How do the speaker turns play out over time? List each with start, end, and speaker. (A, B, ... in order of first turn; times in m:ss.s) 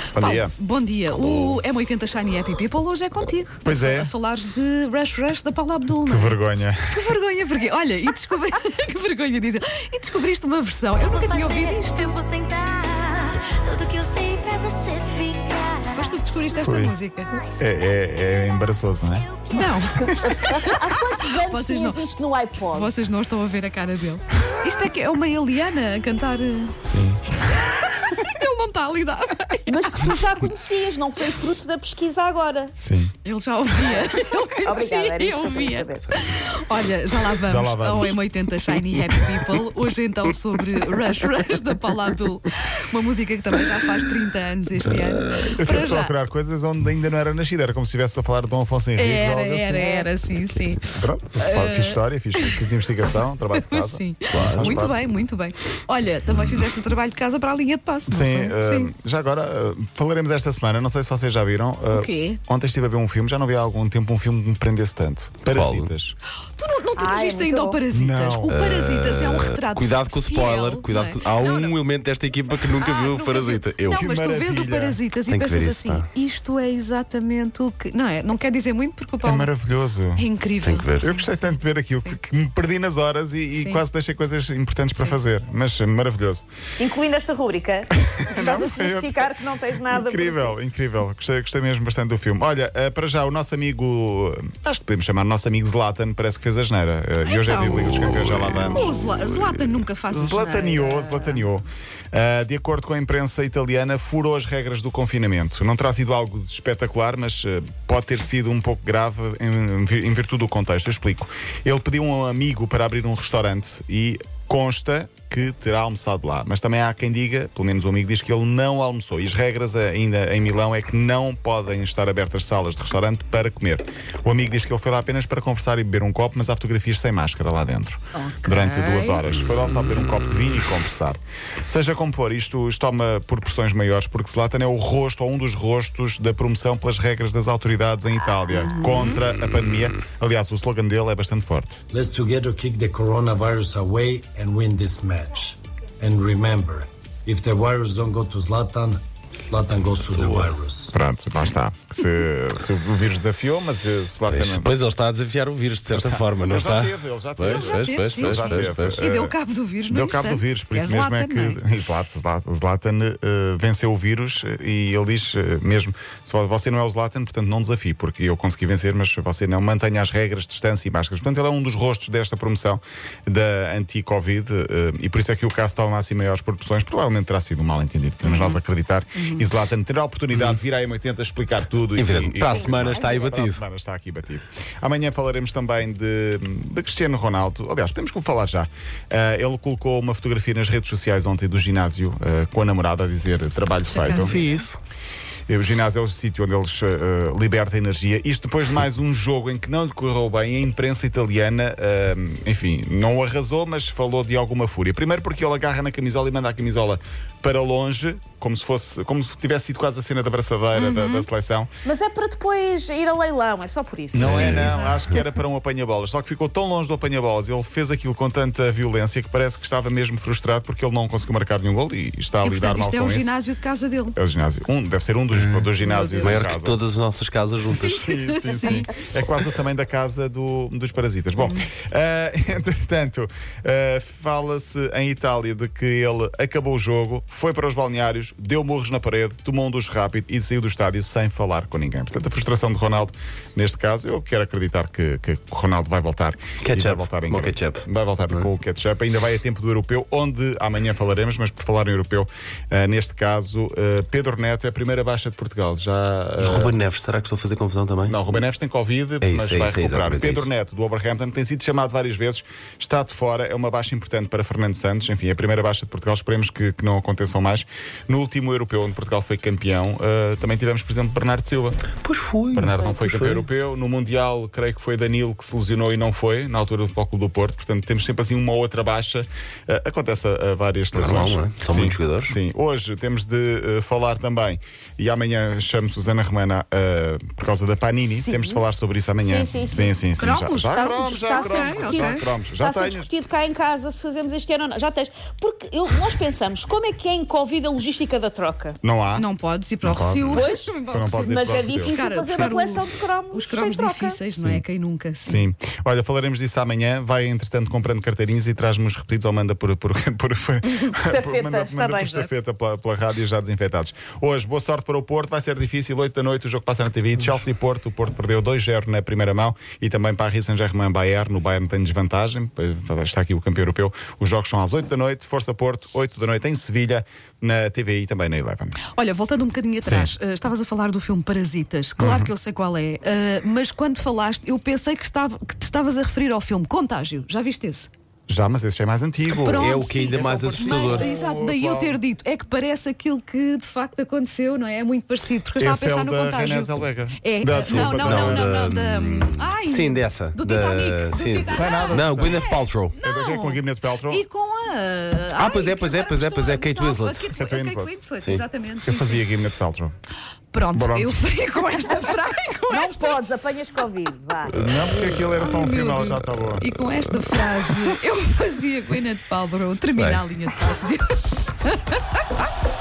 0:00.1-0:00.5 A
0:00.2-0:06.4 B
0:01.1-0:01.6 C
0:03.6-0:04.1 A
0:06.0-0:06.8 A
0:06.9-0:12.3 B
0:11.0-0:16.1 D
0:15.9-0:17.3 B
0:16.6-0:16.9 A
0:17.4-0:18.6 D
0:17.6-0:19.3 A
0:19.2-0:19.7 D
0:19.5-0:22.0 B
0:20.2-0:22.9 E
0:22.7-0:26.8 B
0:26.8-0:27.2 A
0:27.3-0:30.0 B
0:29.7-0:32.8 E
0:32.8-0:33.1 A
0:33.2-0:46.1 B
0:34.6-0:36.1 E
0:37.4-0:38.2 A
0:45.6-0:50.1 A
0:49.0-0:52.7 B
0:50.9-0:55.0 A
0:53.5-0:58.9 B
0:54.3-0:54.9 C
0:58.1-1:06.2 A
1:01.9-1:02.4 B
1:05.4-1:05.9 C
1:06.6-1:11.8 B
1:07.0-1:07.8 E
1:07.9-1:08.5 A
1:08.5-1:14.1 C
1:12.7-1:19.5 B
1:14.0-1:15.0 A
1:15.3-1:16.1 C
1:19.2-1:20.2 A
1:20.1-1:21.3 B
1:20.6-1:21.2 C
1:21.0-1:26.4 A
1:23.5-1:23.8 B
1:26.8-1:30.6 E
1:28.3-1:38.9 A
1:37.2-1:41.5 B
1:39.1-1:39.5 C
1:40.1-2:21.8 A
2:08.1-2:09.2 B
2:18.5-2:19.2 B
2:21.9-2:30.9 F
2:30.1-2:30.5 C
2:30.9-2:34.7 A
2:34.3-2:39.0 C
2:35.9-2:39.3 A
2:37.4-2:41.6 B
2:39.9-3:14.4 A
2:58.2-2:58.6 B
2:59.2-2:59.5 B
3:02.0-3:03.6 C
3:02.4-3:03.3 E
3:13.9-3:14.7 B
3:14.3-3:14.7 C
3:15.5-3:31.7 A
3:30.7-3:31.3 B
3:31.8-3:34.5 E
3:34.1-3:43.3 A
3:34.2-3:34.7 C
3:34.3-3:35.0 B
3:42.4-3:44.2 B
3:44.2-3:46.8 A
3:45.3-3:45.7 C
3:45.8-3:46.4 B
3:46.2-3:48.0 C
3:47.7-3:48.9 B
3:47.8-4:16.8 A
4:06.6-4:08.5 C
4:16.4-4:18.2 C
4:18.1-4:31.8 A
4:19.2-4:20.5 C
4:32.0-4:33.5 C
4:32.5-4:53.1 A
4:40.9-4:42.4 C
4:48.0-4:48.6 E
4:49.2-4:50.0 E
4:50.2-4:52.3 B
4:50.7-4:58.8 E
4:58.8-4:59.2 A
4:59.1-5:05.5 B
4:59.8-5:02.5 A
5:00.3-5:04.2 E
5:05.3-5:28.8 A
5:10.6-5:10.9 B
5:11.0-5:12.3 E
5:28.9-5:37.9 B
5:29.8-5:30.1 A
5:32.0-5:32.3 A
5:38.3-5:42.0 A
5:39.3-5:59.2 B
5:39.5-5:41.1 C
5:45.6-5:48.5 A
5:47.6-5:52.9 C
5:51.5-5:52.5 A
5:53.0-5:54.2 A
5:55.4-5:57.3 C
5:57.3-5:58.0 A
5:58.8-5:59.9 A
6:00.5-6:03.2 B
6:00.7-6:01.2 A
6:02.7-6:04.7 E
6:04.5-6:06.6 A
6:05.4-6:12.2 B
6:10.0-6:10.2 C